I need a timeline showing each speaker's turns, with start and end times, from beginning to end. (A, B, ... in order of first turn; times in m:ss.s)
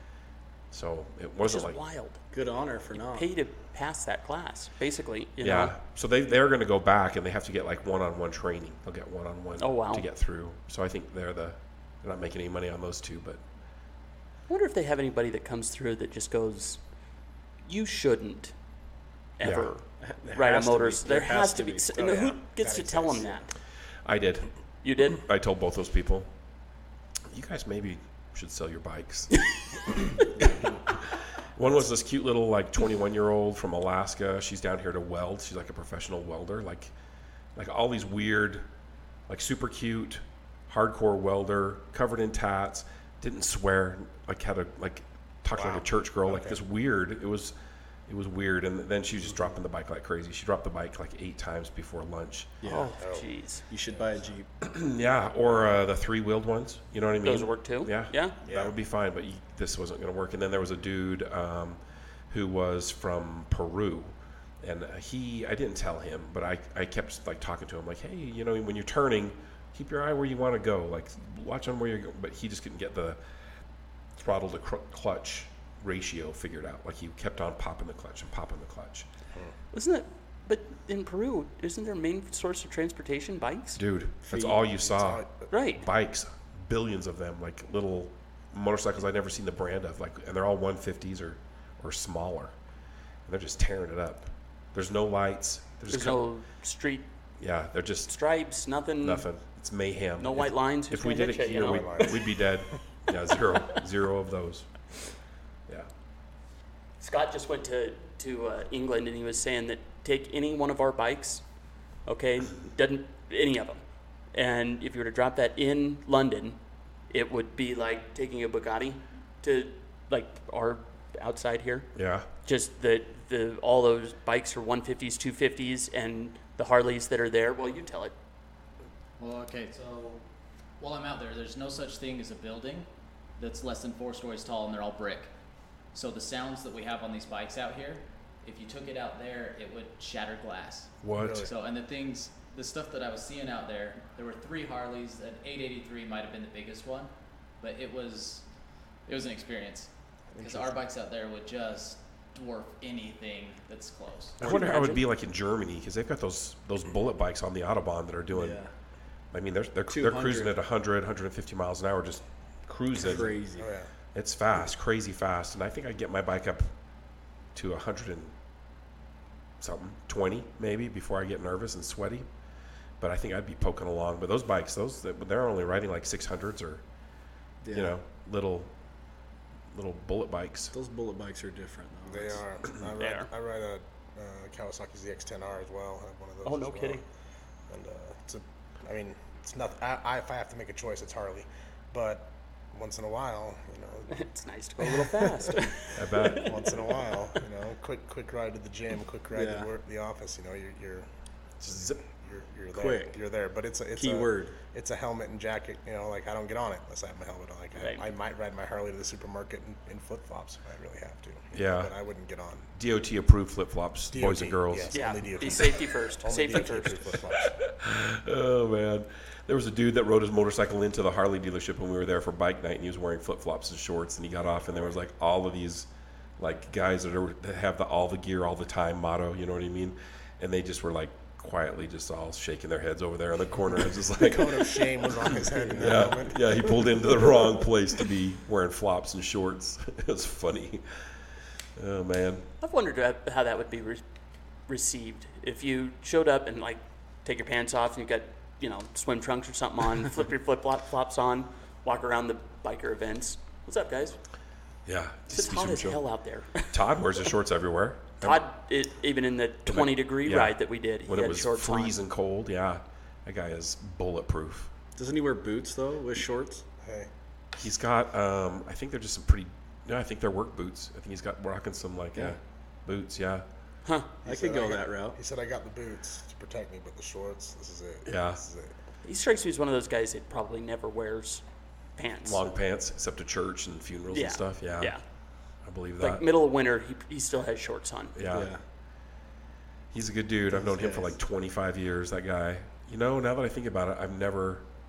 0:00.7-0:01.8 A
0:01.4-0:02.2 B
0:02.3-0:03.3 C
0:03.0-0:05.7 B
0:05.4-0:13.4 A
0:09.6-0:10.0 B
0:14.5-0:16.8 B
0:17.6-0:18.5 B
0:19.4-0:23.5 B
0:19.4-0:19.7 A
0:20.0-0:21.9 C
0:21.9-0:23.5 D
0:24.0-0:24.5 A
0:24.8-0:25.2 B
0:25.0-0:26.3 A
0:27.3-0:29.4 A
0:30.4-0:30.8 C
0:30.4-0:36.9 A
0:37.6-0:38.6 A
0:39.3-0:47.5 A
0:45.5-0:46.6 D
0:48.1-0:52.5 A
0:52.6-0:52.9 C
0:52.6-0:53.6 B
0:53.0-0:53.3 D
0:53.7-0:54.5 C
0:54.6-1:13.2 A
0:57.2-0:58.4 B
0:58.5-0:58.7 D
1:14.2-1:19.1 A
1:19.7-1:23.8 B
1:23.8-1:25.2 A
1:24.2-1:24.6 C
1:24.6-1:25.5 D
1:25.5-1:25.8 B
1:25.8-1:32.5 A
1:33.3-1:36.2 A
1:35.9-1:37.0 B
1:37.4-1:38.1 A
1:38.1-1:39.2 B
1:39.0-1:44.7 A
1:40.2-1:42.1 B
1:41.5-1:42.3 D
1:47.0-1:51.4 B
1:52.0-1:53.8 B
1:54.3-1:56.6 B
1:57.1-2:01.9 B
2:01.9-2:02.3 A
2:02.4-2:08.1 B
2:09.2-2:10.2 E
2:10.8-2:12.8 E
2:13.4-2:15.3 E
2:15.9-2:28.4 E
2:21.0-2:21.5 A
2:21.2-2:21.5 D
2:29.0-2:34.6 E
2:30.3-2:30.8 C
2:34.4-2:35.0 B
2:34.4-2:38.6 A
2:38.3-2:38.7 C
2:39.3-2:43.3 A
2:39.9-2:40.6 C
2:43.0-2:43.7 C
2:43.6-2:43.9 D
2:44.1-2:46.7 A
2:47.5-2:48.3 A
2:49.6-2:52.2 A
2:53.0-2:56.8 A
2:57.6-2:57.9 C
2:57.7-2:58.7 A
2:59.7-3:00.7 A
3:00.7-3:02.4 C
3:02.1-3:07.0 D
3:03.0-3:03.3 B
3:06.4-3:07.0 B
3:07.7-3:14.2 D
3:14.1-3:16.8 B
3:14.8-3:15.5 D
3:15.9-3:16.6 A
3:16.4-3:21.1 D
3:19.3-3:19.7 C
3:21.6-3:22.0 A
3:22.1-3:32.7 D
3:22.7-3:23.2 C
3:24.0-3:24.6 C
3:27.8-3:28.1 B
3:31.5-3:31.9 A
3:32.8-3:35.0 A
3:34.1-3:37.6 D
3:34.9-3:37.0 B
3:37.4-3:45.9 A
3:46.4-4:00.8 A
3:54.2-3:57.3 D
4:01.8-4:02.4 A
4:02.6-4:04.0 B
4:04.7-4:14.2 B
4:14.8-4:16.0 A
4:15.3-4:16.9 B
4:16.7-4:18.4 A
4:18.2-4:22.0 B
4:19.6-4:24.7 A
4:25.0-4:26.6 C
4:26.8-4:27.1 D
4:27.5-4:33.4 A
4:33.8-4:34.1 B
4:34.2-4:35.2 C
4:34.2-4:38.7 D
4:38.0-4:38.4 A
4:39.0-4:41.4 B
4:42.0-4:42.4 B
4:42.2-4:44.9 A
4:44.1-4:45.0 B
4:45.6-4:46.2 A
4:46.0-4:48.1 B
4:48.2-4:48.5 A
4:48.2-4:48.6 C
4:49.9-4:54.6 A
4:50.5-4:51.2 C